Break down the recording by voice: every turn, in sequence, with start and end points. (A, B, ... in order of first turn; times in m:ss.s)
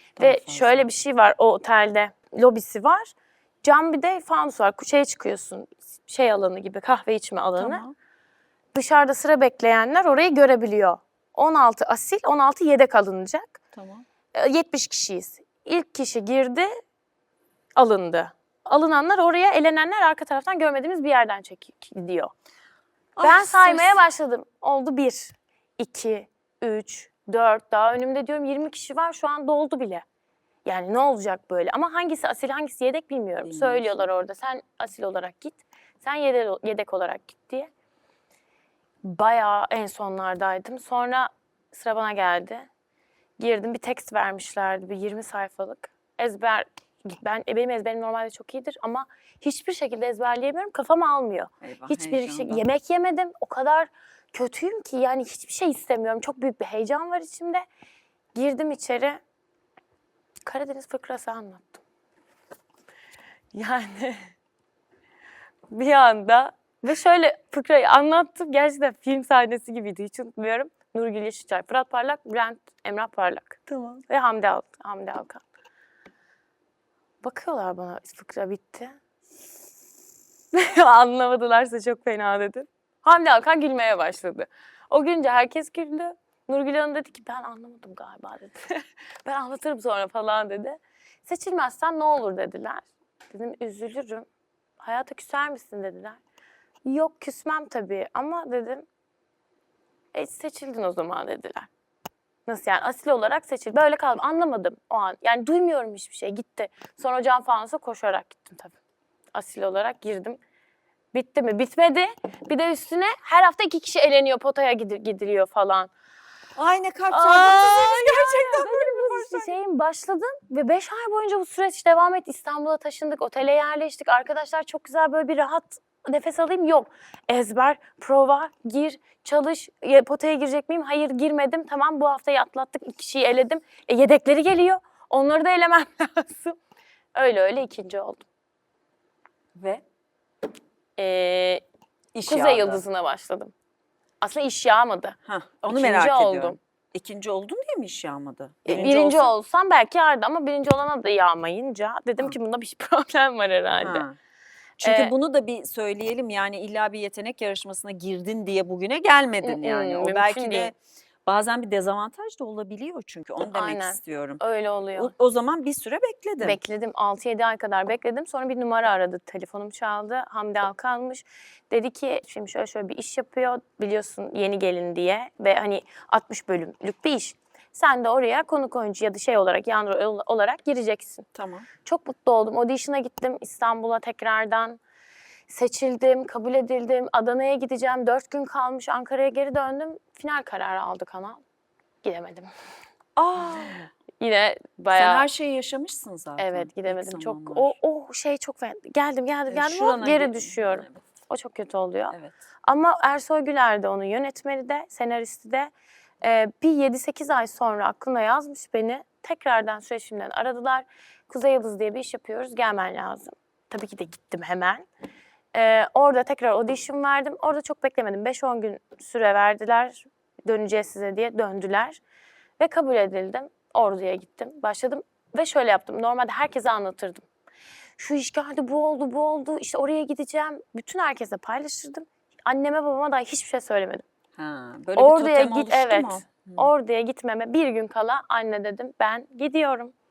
0:00.2-0:00.9 A
0:00.2-0:07.8 B
0:07.6-0:07.9 A
0:08.7-0:13.6 B
0:13.7-0:14.0 A
0:14.3-0:16.7 B
0:17.8-0:22.3 B
0:23.2-0:24.0 A
0:23.2-0:30.0 B
0:30.6-0:37.7 B
0:33.4-0:34.1 A
0:39.0-0:42.7 B
0:43.4-0:57.6 B
0:51.6-0:52.6 A
0:58.3-0:59.2 B
1:00.4-1:01.8 B
1:03.5-1:04.3 B
1:05.7-1:15.4 B
1:13.7-1:14.0 A
1:17.2-1:19.0 B
1:20.5-1:34.3 B
1:34.8-1:36.2 B
1:36.8-1:38.9 B
1:40.1-1:41.7 B
1:42.4-1:48.8 B
1:49.3-1:50.4 B
1:51.1-1:55.9 B
1:56.5-1:59.5 A
1:57.1-2:16.6 B
2:17.1-2:18.2 B
2:19.5-2:19.8 A
2:21.0-2:21.6 B
2:22.1-2:22.8 A
2:22.2-2:23.5 B
2:24.2-2:25.2 B
2:25.2-2:29.3 A
2:25.7-2:26.6 B
2:28.6-2:34.0 B
2:33.8-2:34.2 A
2:34.8-2:40.7 A
2:34.8-2:35.1 B
2:39.4-2:40.7 B
2:41.2-2:44.4 A
2:43.4-2:45.1 B
2:45.0-2:46.6 A
2:46.4-3:01.2 B
3:01.3-3:01.7 A
3:01.8-3:04.8 B
3:05.5-3:11.4 B
3:12.0-3:12.5 B
3:13.2-3:13.9 A
3:14.2-3:15.2 B
3:14.9-3:17.8 A
3:16.4-3:34.9 B
3:19.5-3:21.0 A
3:35.5-3:42.0 B
3:42.6-3:47.2 B
3:48.0-3:54.0 B
3:54.4-3:56.7 A
3:55.0-3:59.9 B